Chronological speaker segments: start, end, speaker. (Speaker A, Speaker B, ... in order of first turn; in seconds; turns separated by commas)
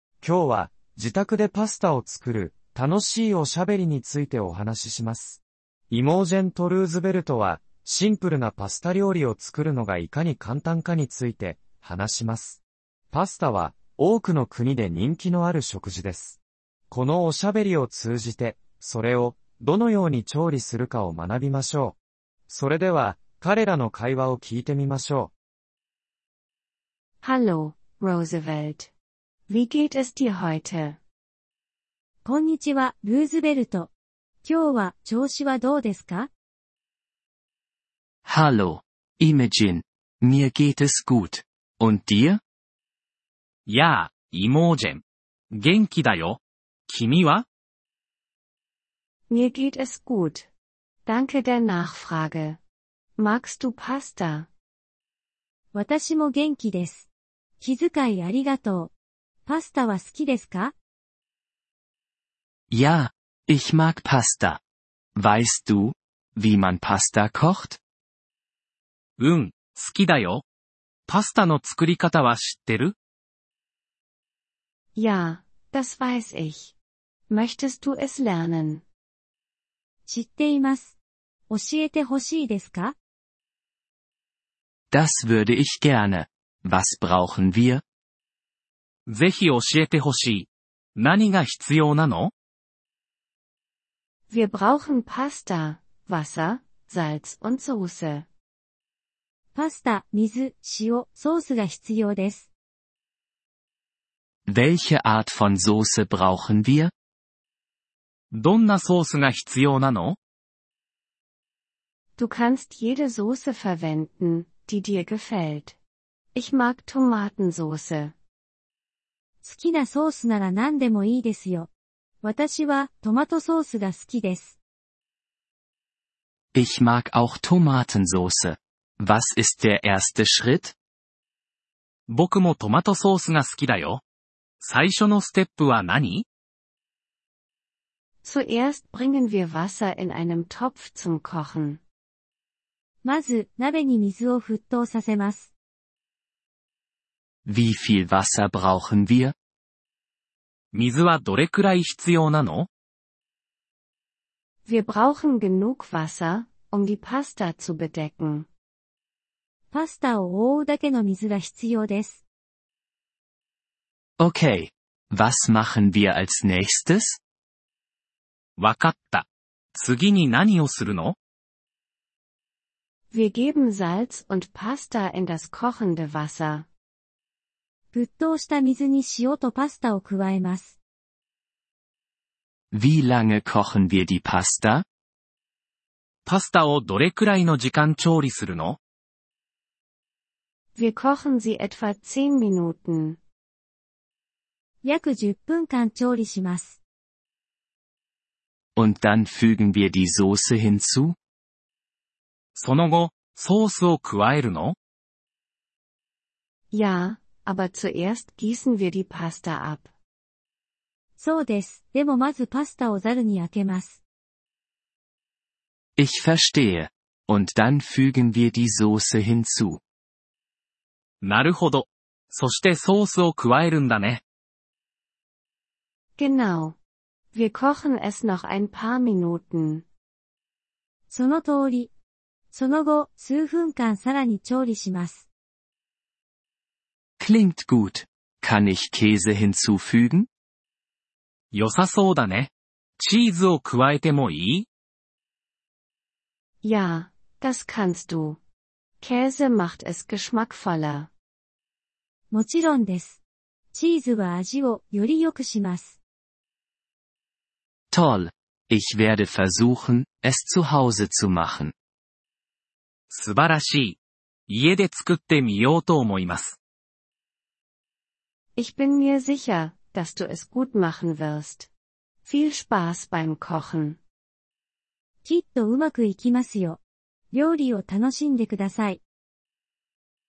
Speaker A: 0.2-12.6, Speaker A: 13.1-16.4, Speaker A: 16.9-22.0, Speaker A: 22.5-25.3, Speaker B: 27.2-28.9, Speaker B: 29.5-31.0, Speaker C: 32.2-33.9, Speaker C: 34.4-36.3, Speaker D: 38.2-42.4, Speaker E: 43.7-47.5, Speaker B: 49.3-50.5, Speaker B: 51.1-52.6, Speaker B: 53.2-54.5, Speaker C: 55.7-57.1, Speaker C: 57.6-58.9, Speaker C: 59.5-60.8, Speaker D: 62.7-64.6, Speaker D: 65.2-67.8, Speaker E: 69.2-70.4, Speaker E: 71.1-73.0, Speaker B: 75.0-76.8, Speaker B: 77.3-78.8, Speaker C: 80.1-81.0, Speaker C: 81.5-83.0, Speaker D: 84.9-87.8, Speaker E: 89.1-92.3, Speaker B: 94.3-98.3, Speaker C: 99.5-102.5, Speaker D: 104.5-106.9, Speaker E: 108.3-110.2, Speaker B: 112.2-115.8, Speaker B: 116.3-118.2, Speaker C: 119.4-121.7, Speaker C: 122.2-124.6, Speaker D: 126.5-130.8, Speaker E: 132.1-134.0, Speaker E: 134.6-136.2, Speaker B: 138.2-141.8, Speaker C: 143.0-145.5, Speaker D: 147.4-149.3, Speaker E: 150.7-152.7, Speaker B: 154.7-158.5, Speaker C: 159.7-162.2, Speaker D: 164.2-167.2, Speaker E: 168.6-171.2, Speaker B: 173.1-176.7, Speaker C: 177.9-180.8, Speaker D: 182.7-184.9, Speaker E: 186.3-188.8, Speaker B: 190.8-193.2, Speaker C: 194.8-196.8, Speaker D: 198.8-201.2, Speaker E: 202.6-204.8, Speaker B: 206.7-209.9, Speaker C: 211.2-214.0, Speaker D: 216.0-219.8, Speaker E: 221.2-224.2, Speaker B: 226.2-226.8, Speaker B: 227.3-229.8, Speaker C: 231.1-231.9, Speaker C: 232.5-235.3, Speaker D: 237.2-240.3, Speaker E: 241.5-244.7, Speaker B: 246.6-248.4, Speaker B: 249.0-251.1, Speaker C: 252.3-253.2, Speaker C: 253.7-256.0, Speaker D: 257.9-261.7, Speaker E: 263.1-266.6, Speaker B: 268.6-271.7, Speaker B: 272.2-274.0, Speaker C: 275.2-276.8, Speaker C: 277.3-279.0